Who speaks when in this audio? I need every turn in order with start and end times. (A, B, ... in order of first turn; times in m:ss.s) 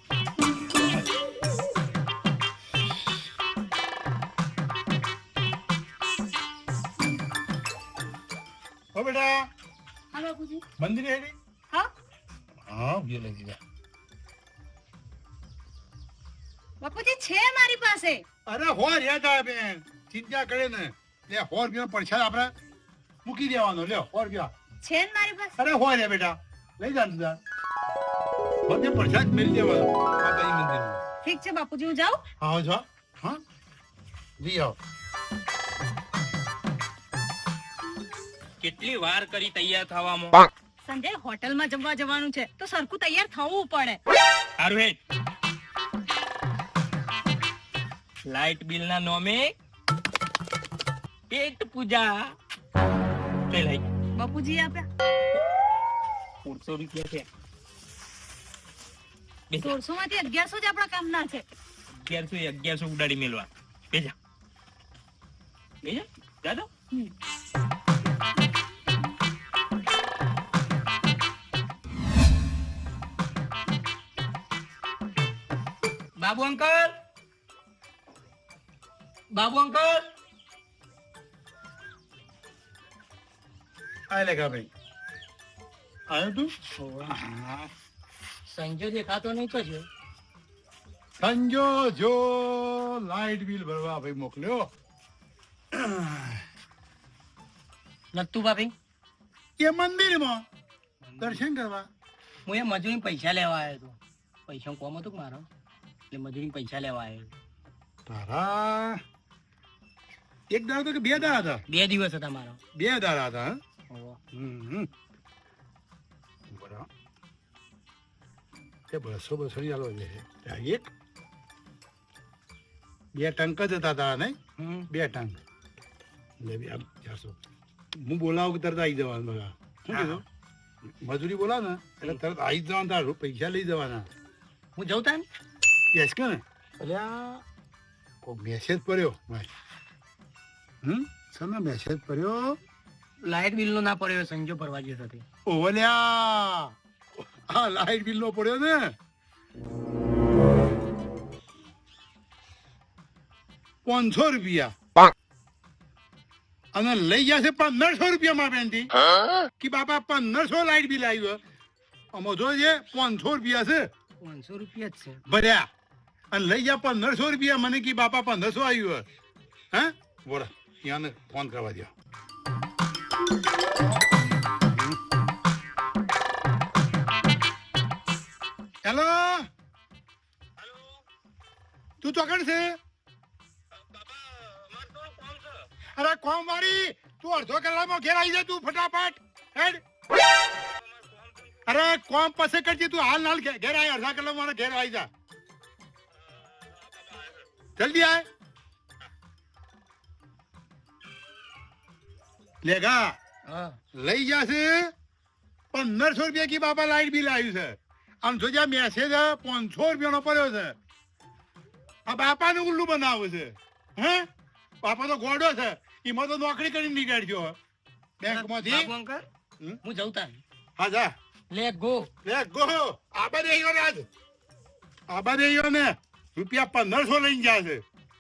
0:08.9-0:09.5 A
0:10.1-0:10.6 B
0:10.8-0:11.4 A
0:12.7-0:13.6 A
0:16.8-0:18.2 B
0:18.5-0:22.5 A
0:23.2-0:24.5 A
0:24.8-0:25.6 B
0:25.6-0:27.4 A
0:28.7-0:31.0 A
0:31.2-0:32.2 B
0:32.4-0:33.4 A
0:34.4-0:34.8 A
0:38.6-0:40.5 C
0:40.8-0:44.0 B
0:44.6-0:45.0 C
0:48.3-0:49.5 C
0:51.3-0:52.4 C
0:53.5-0:53.9 C
0:54.2-0:54.9 B
0:56.4-0:57.3 C
0:59.5-0:59.8 C
0:59.6-1:01.4 B
1:01.9-1:04.2 C
1:05.8-1:06.7 C
1:16.2-1:16.9 D
1:19.3-1:20.1 D
1:24.1-1:24.7 A
1:26.1-1:26.5 A
1:26.8-1:27.1 D
1:27.1-1:27.7 A
1:28.5-1:29.9 D
1:31.2-1:34.7 A
1:35.7-1:36.4 A
1:38.1-1:38.7 D
1:39.6-1:40.4 A
1:41.0-1:41.4 D
1:41.2-1:41.9 A
1:42.5-1:45.5 D
1:46.1-1:47.3 D
1:48.1-1:49.0 A
1:50.5-1:51.6 A
1:51.7-1:52.6 D
1:52.8-1:53.6 A
1:53.9-1:54.2 D
1:54.3-1:54.9 A
1:56.5-1:56.9 A
1:58.9-2:00.9 A
2:03.2-2:05.4 A
2:06.4-2:07.4 A
2:08.0-2:10.2 A
2:09.9-2:10.2 D
2:10.9-2:14.1 A
2:14.8-2:15.2 D
2:15.9-2:17.4 A
2:18.2-2:19.5 A
2:20.8-2:22.6 A
2:23.2-2:25.3 D
2:25.5-2:28.9 A
2:33.8-2:34.7 A
2:36.7-2:38.9 A
2:39.6-2:41.4 A
2:42.1-2:43.8 A
2:44.2-2:45.2 D
2:45.3-2:45.7 A
2:46.3-2:49.0 A
2:49.7-2:51.9 A
2:54.7-2:55.0 A
2:58.8-2:59.5 A
3:00.6-3:01.0 C
3:02.0-3:02.8 A
3:03.7-3:05.6 C
3:06.0-3:09.8 A
3:10.8-3:11.6 C
3:11.7-3:15.1 A
3:16.2-3:17.4 C
3:17.8-3:18.3 A
3:22.6-3:23.2 A
3:23.5-3:23.8 D
3:24.0-3:24.9 A
3:25.7-3:30.8 A
3:32.1-3:34.3 A
3:34.8-3:37.6 A
3:38.2-3:38.9 A
3:38.3-3:39.3 D
3:39.8-3:40.4 D
3:40.8-3:41.1 A
3:41.5-3:42.1 D
3:42.2-3:44.1 A
3:45.1-3:47.8 A